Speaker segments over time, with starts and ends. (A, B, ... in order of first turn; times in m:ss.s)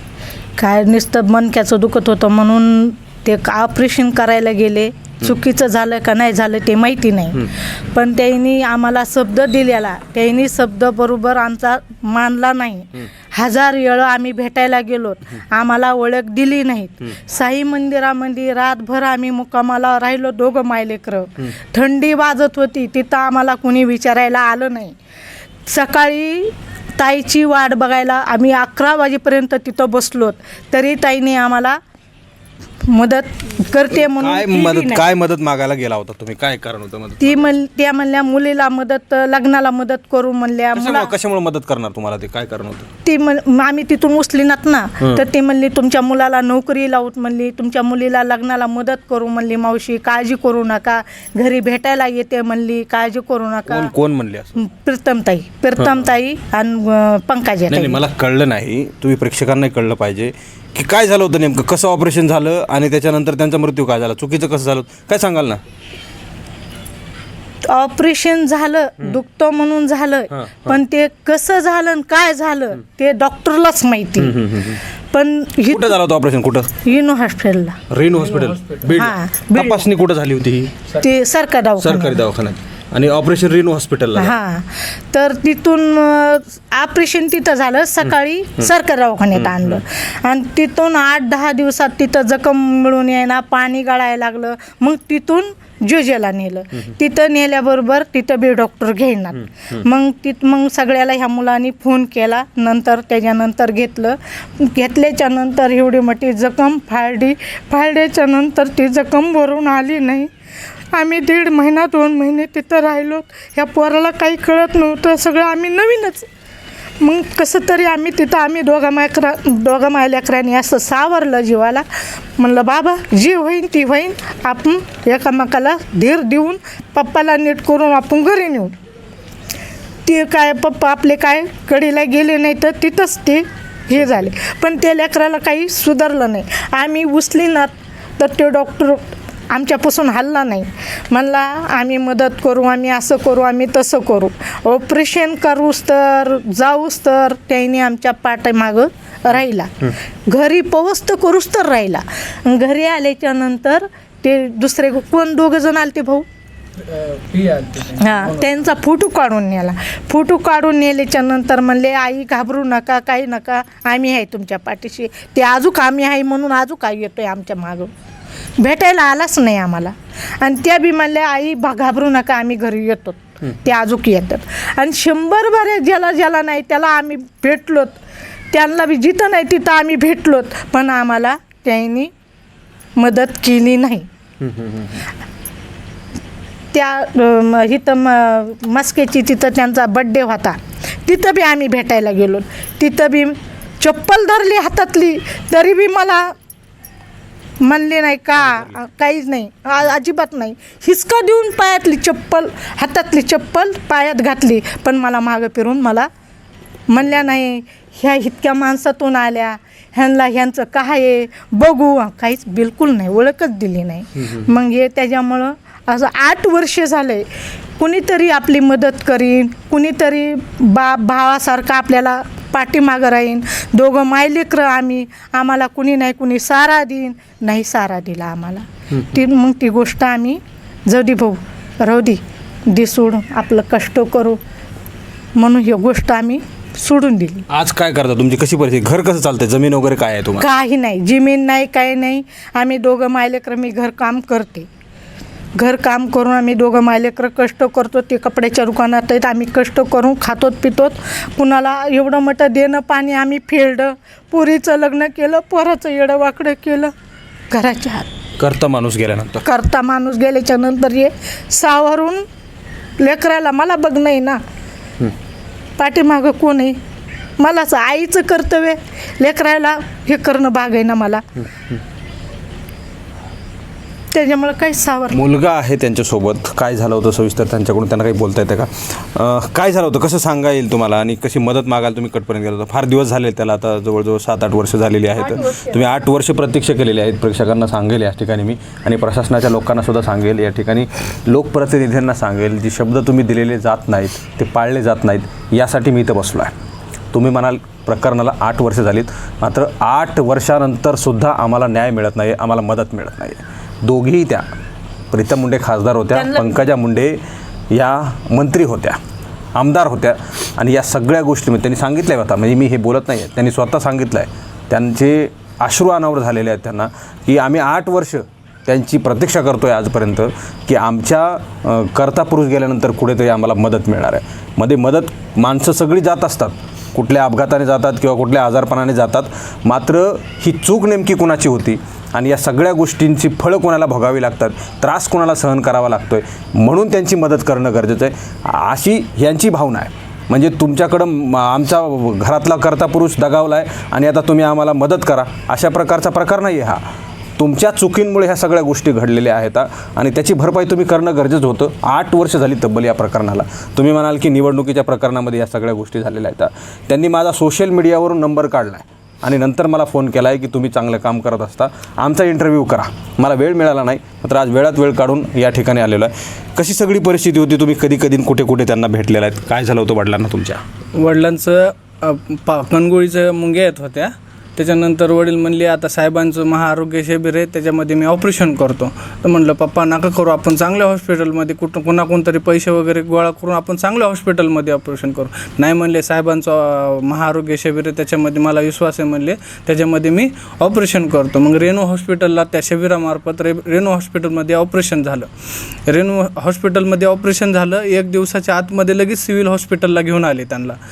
0:00.6-0:25.0 A
0:25.7-0:31.8 A
0:32.8-0:35.1 A
0:33.9-0:37.5 B
0:37.2-0:41.1 A
0:40.8-0:42.9 B
0:43.0-0:53.9 A
0:53.7-0:54.6 B
0:54.6-0:58.0 A
0:55.8-0:56.1 B
0:57.7-1:05.6 B
1:07.6-1:14.4 A
1:10.3-1:10.8 B
1:14.2-1:14.8 B
1:15.1-1:16.0 A
1:15.7-1:16.8 B
1:16.8-1:17.8 A
1:17.9-1:20.8 B
1:18.1-1:19.0 C
1:18.9-1:19.8 A
1:21.0-1:22.2 A
1:21.8-1:24.4 B
1:24.2-1:50.3 A
1:29.4-1:29.8 B
1:50.9-1:56.3 A
1:57.0-2:01.8 A
2:02.4-2:08.8 A
2:10.0-2:36.3 A
2:36.8-2:38.5 C
2:38.0-2:47.9 A
2:48.6-2:58.0 A
2:58.5-3:02.1 A
3:03.0-3:04.1 A
3:04.4-3:05.0 B
3:06.7-3:16.3 A
3:17.6-3:26.1 A
3:26.9-3:37.3 A
3:37.8-3:54.4 A
3:55.4-3:57.5 A
3:57.5-4:00.5 B
4:00.4-4:04.7 A
4:05.6-4:16.9 A
4:17.5-4:18.1 A
4:18.4-4:19.4 B
4:19.4-4:22.2 A
4:23.0-4:24.4 A
4:25.8-4:26.8 A
4:27.4-4:31.2 A
4:34.1-4:35.2 A
4:35.1-4:56.5 B
4:45.3-4:45.9 A
4:57.1-5:04.4 B
5:05.1-5:07.2 B
5:06.2-5:06.5 A
5:07.7-5:09.0 B
5:09.6-5:46.8 B
5:47.4-6:10.6 B
6:10.9-6:35.3 C
6:35.9-6:40.8 C